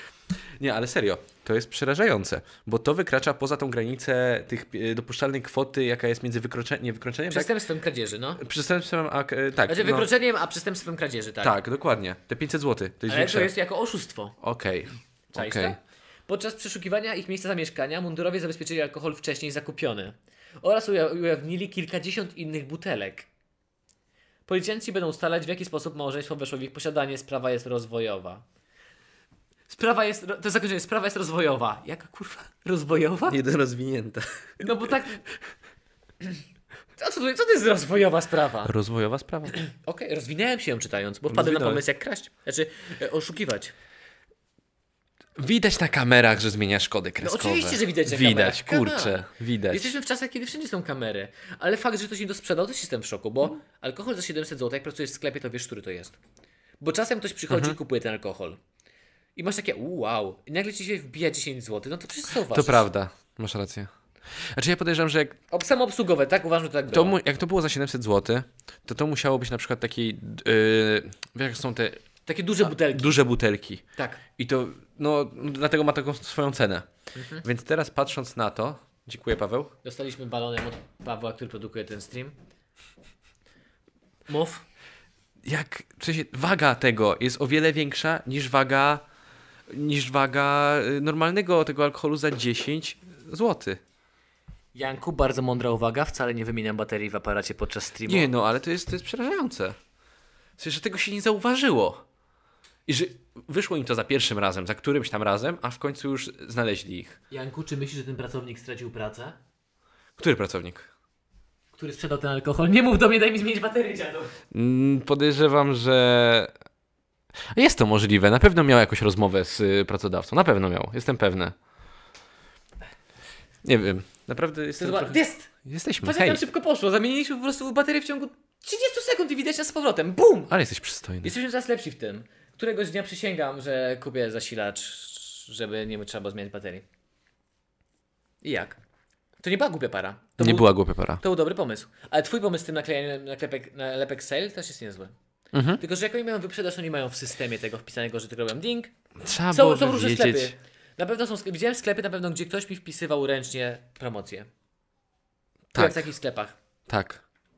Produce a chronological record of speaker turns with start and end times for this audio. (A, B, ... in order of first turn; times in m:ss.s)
0:00.6-0:07.5 A
0:07.3-0:08.4 B
0:08.4-0:10.1 A
0:09.7-0:11.6 B
0:11.4-0:13.5 A
0:13.1-0:14.4 B
0:14.4-0:15.8 A
0:15.3-0:23.3 B
0:24.5-0:28.4 B
0:29.7-0:33.4 B
0:33.3-0:34.2 A
0:34.6-0:35.2 B
0:37.0-0:38.7 B
0:38.6-0:39.6 A
0:39.6-0:43.7 B
0:41.3-0:41.8 A
0:45.4-0:49.9 A
0:47.2-0:56.2 B
0:56.8-0:58.6 B
0:57.5-0:57.8 A
0:59.4-1:02.9 B
1:02.5-1:05.4 A
1:05.5-1:07.2 B
1:06.9-1:12.0 A
1:12.3-1:13.2 B
1:12.6-1:13.8 A
1:14.0-1:14.2 B
1:14.4-1:16.9 A
1:17.2-1:17.4 B
1:17.4-1:19.7 A
1:19.8-1:22.4 B
1:24.3-1:24.6 B
1:25.4-1:29.0 A
1:29.7-1:33.8 A
1:34.8-1:38.3 B
1:38.1-1:39.8 A
1:40.6-1:42.0 A
1:42.9-1:47.2 A
1:47.3-1:49.4 B
1:50.2-1:50.9 A
1:51.8-1:54.4 B
1:54.5-1:56.5 A
1:57.5-2:01.6 A
2:03.6-2:06.4 A
2:04.8-2:05.5 B
2:06.0-2:10.5 B
2:10.5-2:11.3 A
2:11.2-2:16.8 B
2:18.4-2:18.8 B
2:19.4-2:25.1 B
2:20.4-2:21.2 A
2:25.5-2:25.8 A
2:25.8-2:28.9 B
2:29.2-2:30.5 A
2:29.5-2:34.5 B
2:35.7-2:36.1 A
2:35.8-2:36.5 B
2:36.9-2:37.2 A